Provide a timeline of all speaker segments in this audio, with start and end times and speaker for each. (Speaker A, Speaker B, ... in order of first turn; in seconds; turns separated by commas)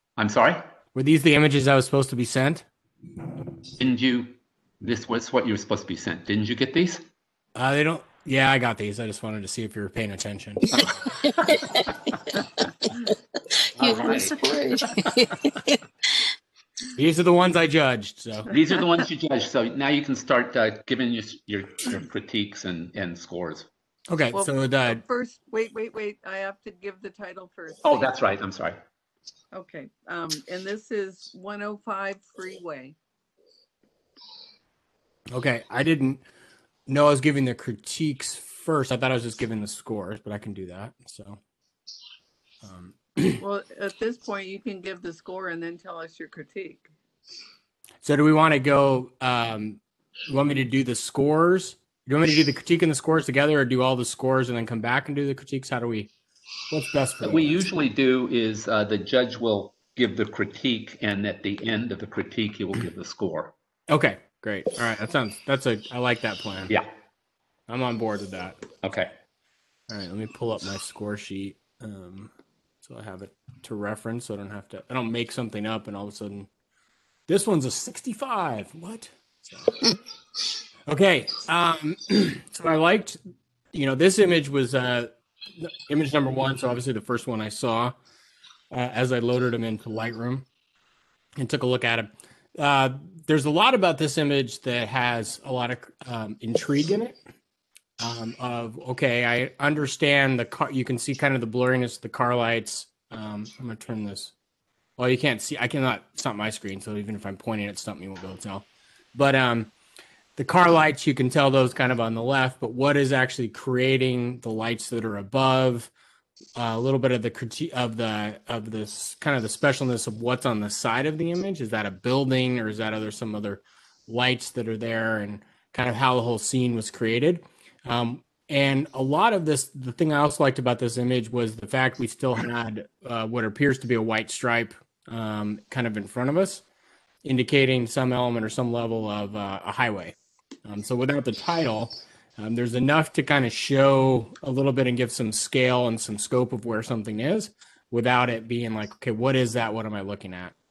Speaker A: 0.2-0.6, Speaker B: 0.9-2.6, Speaker A: 3.8-7.0, Speaker B: 7.5-10.9, Speaker C: 11.2-12.4, Speaker C: 13.5-16.3, Speaker A: 13.8-14.3, Speaker B: 16.9-18.5, Speaker A: 18.5-23.7, Speaker B: 24.1-25.0, Speaker D: 24.3-28.1, Speaker A: 27.8-28.8, Speaker D: 29.5-33.0, Speaker B: 35.3-36.2, Speaker B: 36.9-41.4, Speaker B: 42.6-43.4, Speaker D: 43.4-46.9, Speaker B: 48.0-56.1, Speaker B: 56.7-57.6, Speaker A: 57.2-63.5, Speaker B: 63.9-66.7, Speaker B: 67.7-68.7, Speaker A: 68.8-69.1, Speaker B: 69.9-72.3, Speaker B: 72.8-76.5, Speaker B: 77.3-79.8, Speaker B: 80.9-83.2, Speaker B: 83.7-87.9, Speaker B: 88.7-90.5, Speaker B: 91.4-97.2, Speaker B: 98.0-104.3, Speaker B: 105.0-109.7, Speaker B: 110.3-115.9, Speaker B: 116.5-136.6, Speaker B: 137.2-150.5